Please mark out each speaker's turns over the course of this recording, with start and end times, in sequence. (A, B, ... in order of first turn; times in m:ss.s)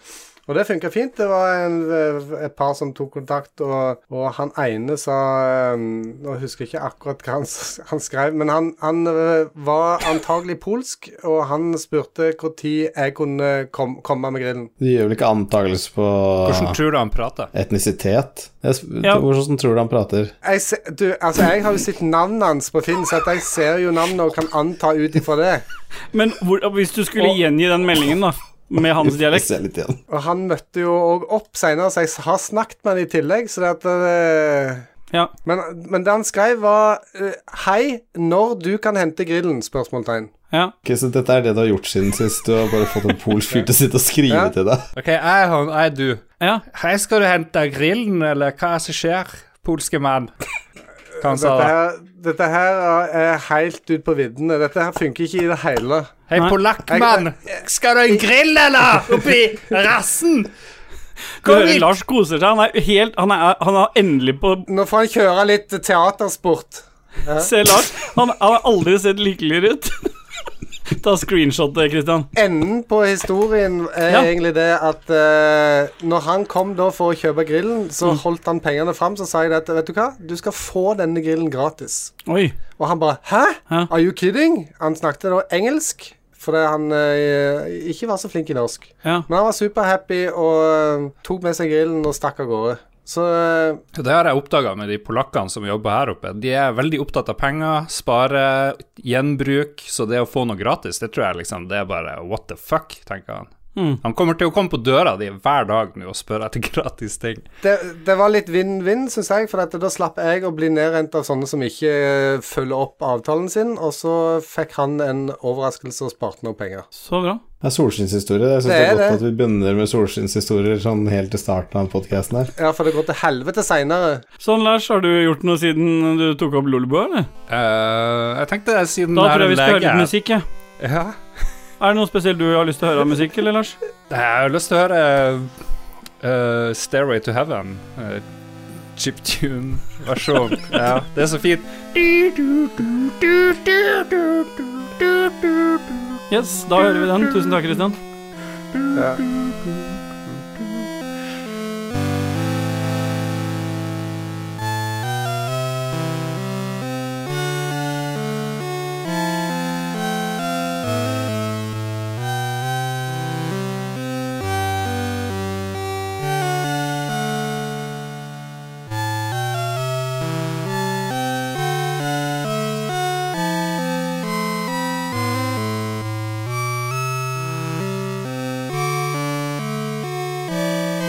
0:00.5-0:14.7 A
0:14.8-0:16.8 B
0:16.4-0:17.5 C
0:17.5-0:20.3 B
0:20.4-0:25.6 A
0:26.1-0:29.5 D
0:29.0-0:30.0 B
0:30.1-0:34.9 A
0:35.4-0:40.3 A
0:40.8-0:44.8 B
0:44.9-0:50.3 C
0:51.2-0:51.7 C
0:51.2-0:56.1 A
0:56.3-1:00.5 C
0:56.9-0:57.3 A
1:01.4-1:04.7 D
1:01.4-1:01.9 C
1:04.7-1:07.5 A
1:07.4-1:10.1 D
1:10.9-1:12.3 D
1:12.3-1:22.1 A
1:22.3-1:22.5 D
1:22.8-1:33.8 A
1:33.9-1:47.4 C
1:43.8-1:44.0 D
1:47.6-1:56.8 A
1:57.0-1:57.4 D
1:57.6-2:02.5 B
1:58.6-1:59.2 A
2:02.5-2:04.2 A
2:04.4-2:07.3 D
2:07.5-2:10.1 C
2:09.1-2:10.4 D
2:10.8-2:11.2 C
2:11.8-2:13.8 D
2:14.1-2:15.5 C
2:16.2-2:18.2 C
2:18.9-2:24.5 C
2:25.0-2:25.3 C
2:26.3-2:28.0 D
2:28.9-2:29.2 A